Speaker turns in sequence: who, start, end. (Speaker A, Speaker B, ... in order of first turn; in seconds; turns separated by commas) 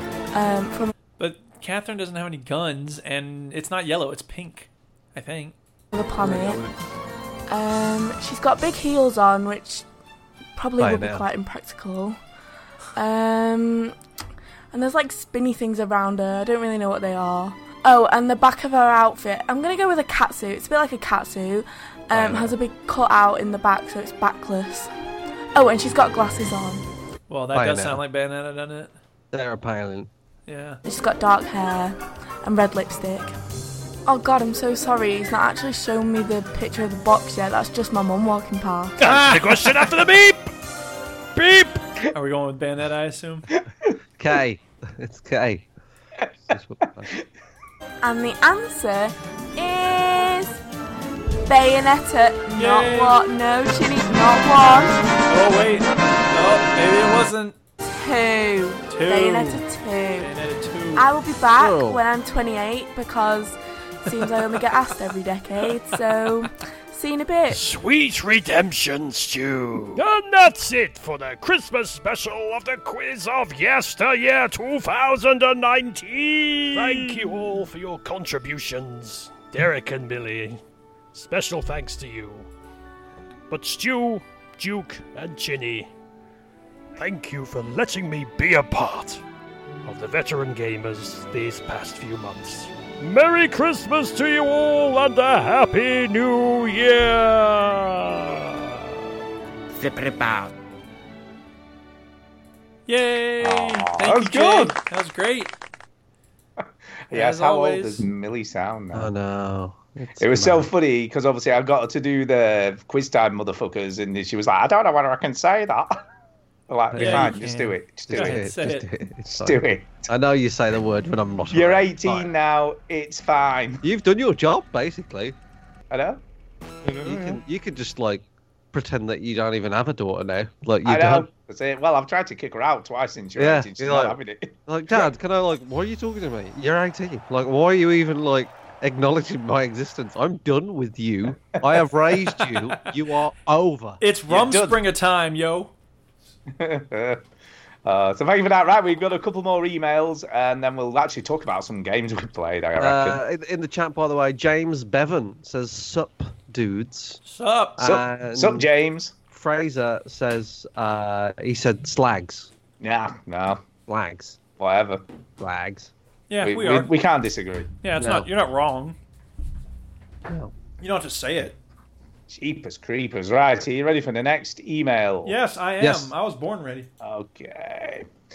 Speaker A: 0.3-0.9, Speaker B: 1.2-5.5, Speaker A: 5.9-6.6, Speaker A: 7.5-9.8, Speaker A: 10.6-12.2, Speaker C: 10.8-11.2, Speaker A: 12.9-13.9, Speaker A: 14.7-24.9, Speaker C: 22.1-22.5, Speaker A: 25.5-26.8, Speaker B: 27.3-28.9, Speaker C: 27.5-28.0, Speaker C: 29.3-30.1, Speaker B: 30.5-30.8, Speaker A: 30.8-33.3, Speaker A: 34.0-39.1, Speaker B: 39.0-39.7, Speaker D: 39.0-40.5, Speaker D: 41.4-41.8, Speaker B: 42.1-43.5, Speaker C: 44.2-45.7, Speaker C: 46.5-47.1, Speaker A: 48.0-50.5, Speaker A: 51.5-55.0, Speaker B: 52.5-53.2, Speaker B: 55.3-57.5, Speaker A: 57.8-60.3, Speaker B: 58.9-59.6, Speaker B: 60.2-61.1, Speaker A: 60.9-67.6, Speaker C: 61.5-62.0, Speaker B: 64.1-64.6, Speaker D: 67.5-80.6, Speaker D: 81.1-82.5, Speaker D: 83.5-85.9, Speaker D: 87.0-89.2, Speaker D: 89.8-98.9, Speaker B: 102.9-105.5, Speaker E: 103.4-104.7, Speaker E: 107.1-109.1, Speaker B: 107.1-108.0, Speaker C: 108.9-110.7, Speaker E: 110.2-115.9, Speaker E: 116.7-118.4, Speaker C: 116.9-117.4, Speaker B: 117.0-118.8, Speaker C: 118.1-122.3, Speaker E: 119.3-120.1, Speaker E: 121.5-123.8, Speaker C: 123.8-125.3, Speaker E: 125.9-126.2, Speaker E: 126.8-127.4, Speaker C: 127.0-131.3, Speaker E: 130.8-135.1, Speaker C: 133.4-144.0, Speaker B: 144.0-145.7, Speaker E: 144.3-144.8, Speaker E: 146.6-147.2, Speaker E: 147.8-153.2, Speaker C: 152.8-157.2, Speaker B: 157.2-157.8, Speaker C: 157.8-158.7, Speaker E: 157.8-159.1, Speaker C: 159.3-162.5, Speaker E: 162.8-163.6, Speaker C: 163.9-164.4, Speaker E: 164.6-165.0, Speaker C: 165.4-165.9, Speaker B: 166.3-166.9, Speaker E: 166.4-167.7, Speaker B: 167.8-169.0, Speaker C: 168.0-168.3, Speaker B: 170.8-171.6, Speaker E: 172.3-175.3, Speaker B: 175.2-176.9, Speaker C: 175.8-176.1, Speaker E: 177.0-178.1